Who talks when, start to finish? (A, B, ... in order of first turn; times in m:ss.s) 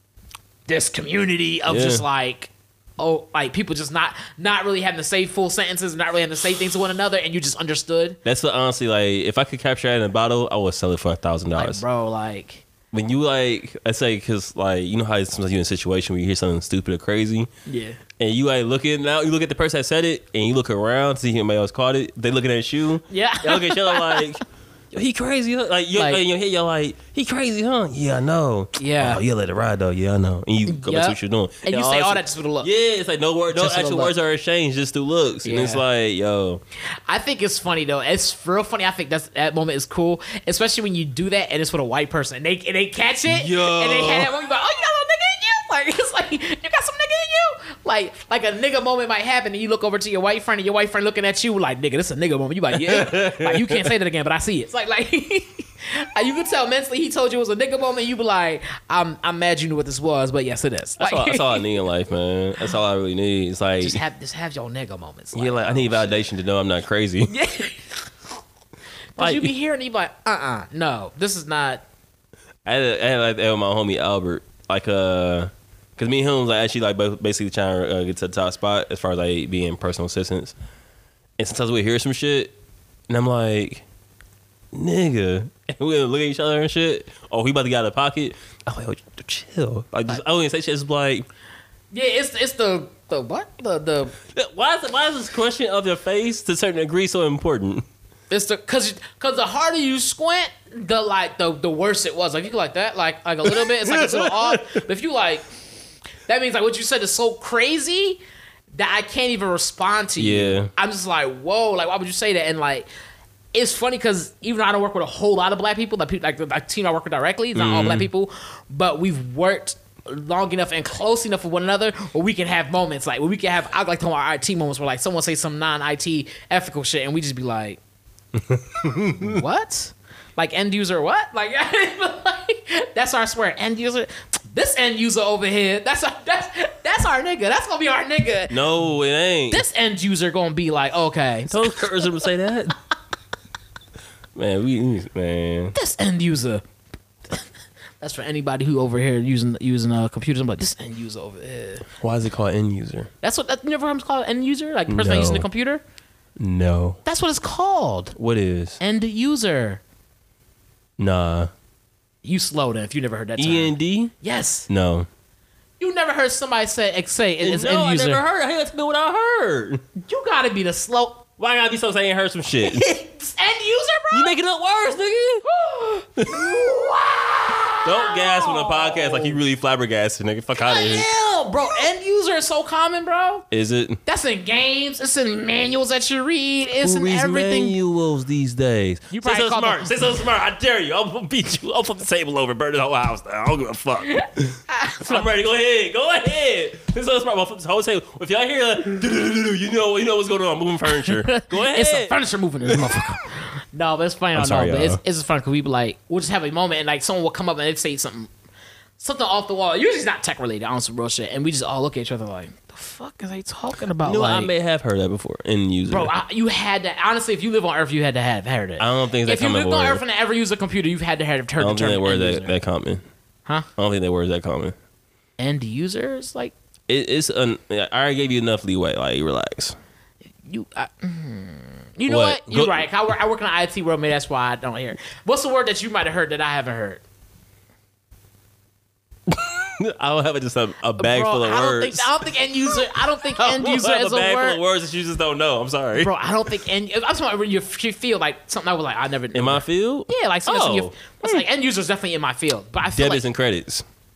0:00.7-0:08.2 A
0:01.7-0:02.0 B
0:08.2-0:11.8 B
0:11.5-0:12.6 A
0:12.9-0:17.5 B
0:17.7-0:18.0 A
0:18.2-0:24.4 B
0:23.1-0:24.3 A
0:24.9-0:36.6 B
0:25.9-0:26.2 A
0:28.8-0:29.2 A
0:30.6-0:32.7 A
0:33.5-0:34.1 A
0:35.4-0:35.8 A
0:36.8-1:01.6 A
0:43.3-0:44.3 B
0:52.7-0:53.9 B
1:01.0-1:04.0 B
1:03.8-1:06.3 A
1:05.3-1:07.3 B
1:07.3-1:08.0 A
1:09.2-1:11.8 A
1:09.2-1:09.5 B
1:12.6-1:20.5 B
1:21.4-1:22.5 B
1:23.1-1:23.8 B
1:24.7-1:31.3 B
1:31.9-1:34.1 A
1:34.3-1:37.8 B
1:38.3-1:45.5 A
1:43.4-1:44.8 B
1:46.3-1:48.2 A
1:48.7-1:52.9 A
1:50.2-1:50.7 B
1:53.5-2:07.8 A
1:57.5-1:58.1 B
2:08.4-2:09.4 B
2:08.9-2:18.8 A
2:18.5-2:19.6 B
2:19.5-2:22.3 A
2:21.5-2:22.8 B
2:24.3-2:25.7 B
2:25.7-2:26.6 A
2:28.0-2:31.8 A
2:32.0-2:33.1 B
2:33.2-2:35.8 A
2:34.9-2:35.5 B
2:36.4-2:37.0 B
2:37.0-2:38.2 A
2:38.2-2:38.8 B
2:38.8-2:39.8 A
2:41.0-2:41.5 B
2:42.2-2:44.7 A
2:43.4-2:44.1 B
2:44.7-2:45.1 B
2:45.8-2:48.2 A
2:47.4-2:49.8 B
2:50.0-2:51.2 A
2:51.4-2:52.8 B
2:52.6-2:54.3 A
2:54.1-2:55.4 B
2:55.4-2:59.4 A
2:57.8-3:01.1 B
3:00.6-3:03.4 A
3:03.5-3:04.0 B
3:04.0-3:07.8 A
3:06.8-3:23.0 B
3:09.1-3:10.0 A
3:14.1-3:15.3 A
3:21.0-3:28.3 A
3:24.3-3:25.0 B
3:29.0-3:34.5 A
3:34.0-3:36.1 B
3:35.9-3:42.6 A
3:38.8-3:40.0 B
3:41.6-3:43.0 B
3:43.8-3:44.7 B
3:45.4-3:46.5 A
3:46.9-3:49.8 B
3:50.4-3:57.0 A
3:52.1-3:52.8 B
3:59.3-4:06.1 B
4:01.0-4:04.6 A
4:06.0-4:13.2 A
4:09.3-4:11.4 B
4:12.9-4:13.8 B